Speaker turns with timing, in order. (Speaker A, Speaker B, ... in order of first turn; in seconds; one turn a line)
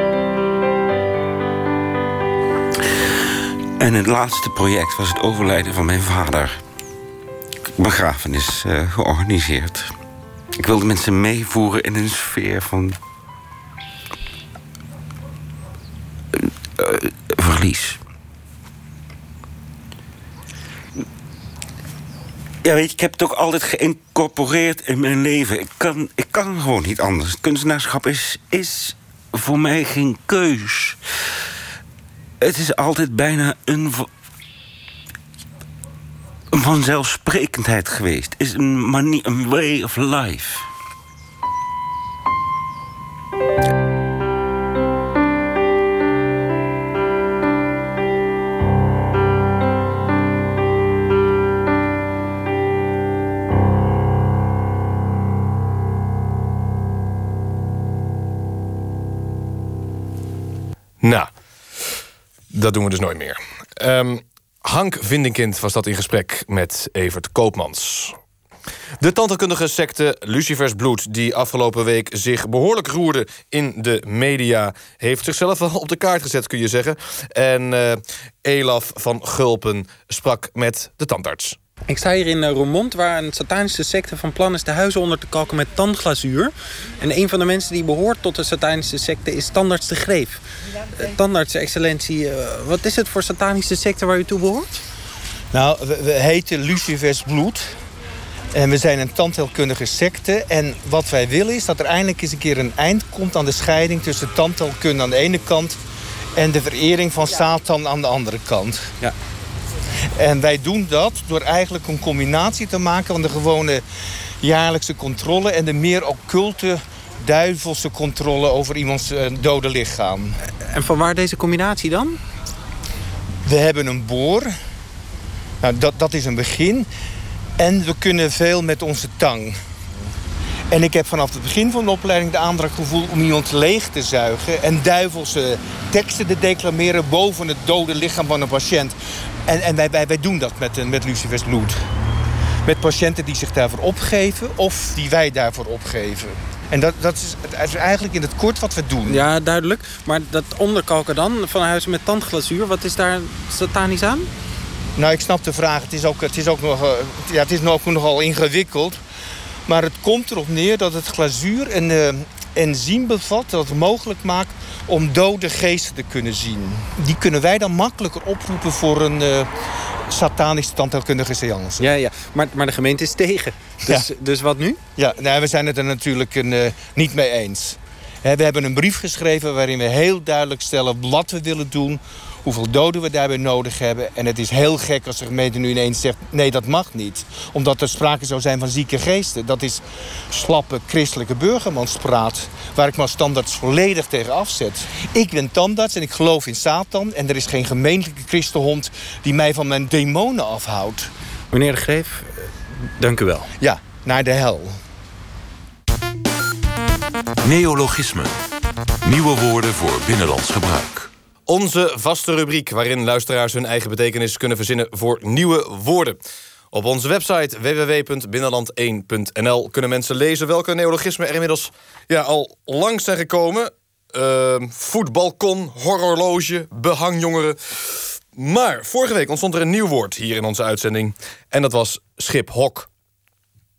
Speaker A: 3.8-6.6
Speaker A: 7.8-9.9
Speaker A: 10.6-13.0
Speaker A: 16.3-18.0
Speaker A: 22.6-31.0
Speaker A: 32.4-34.1
Speaker A: 36.5-40.7
Speaker B: 61.0-61.3
Speaker B: 62.5-68.2
Speaker B: 69.0-81.6
Speaker C: 81.9-90.4
Speaker C: 91.0-94.8
Speaker D: 95.5-97.7
Speaker D: 98.5-105.8
Speaker D: 106.4-109.0
Speaker D: 110.2-113.8
Speaker D: 114.4-120.4
Speaker C: 120.7-122.2
Speaker D: 123.5-124.5
Speaker D: 125.6-126.9
Speaker D: 127.6-129.6
Speaker D: 130.7-138.9
Speaker D: 139.5-141.8
Speaker D: 142.7-149.2
Speaker C: 149.1-154.3
Speaker D: 155.0-159.0
Speaker D: 159.7-169.5
Speaker D: 170.1-171.9
Speaker C: 171.8-174.8
Speaker D: 175.0-201.1
Speaker C: 201.5-203.5
Speaker D: 203.6-204.8
Speaker E: 207.4-208.4
Speaker E: 209.0-211.1
Speaker B: 211.5-216.2
Speaker B: 216.7-232.9